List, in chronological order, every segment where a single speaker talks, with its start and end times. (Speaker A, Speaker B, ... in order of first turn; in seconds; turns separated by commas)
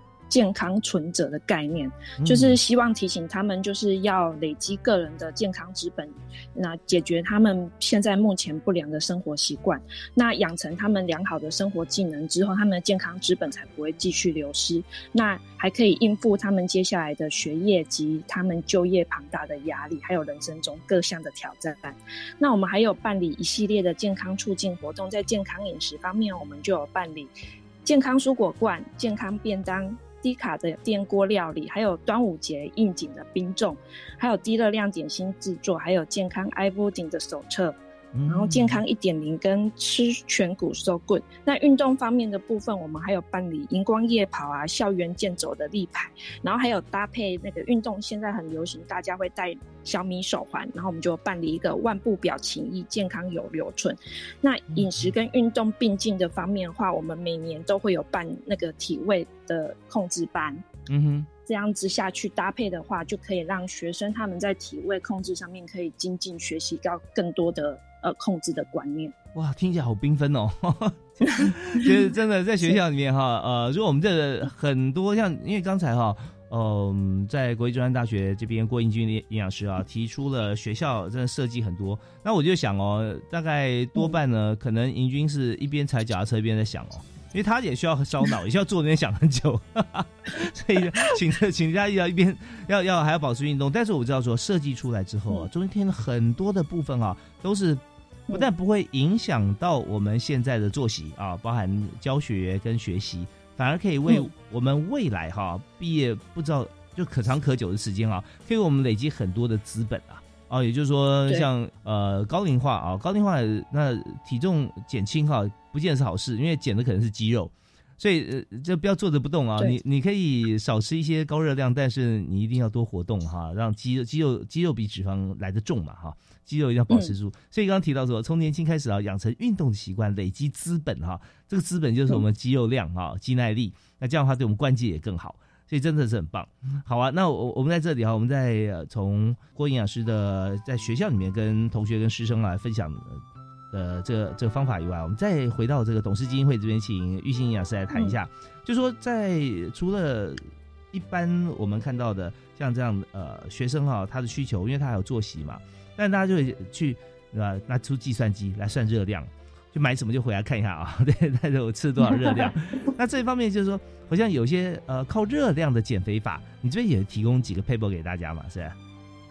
Speaker A: 0.3-27.3, Speaker B: 2.2-2.6, Speaker A: 27.9-60.7, Speaker B: 38.1-38.8, Speaker B: 60.9-61.3, Speaker A: 61.5-69.2, Speaker B: 69.3-143.2, Speaker A: 71.3-72.0, Speaker B: 143.7-168.7, Speaker A: 147.9-148.2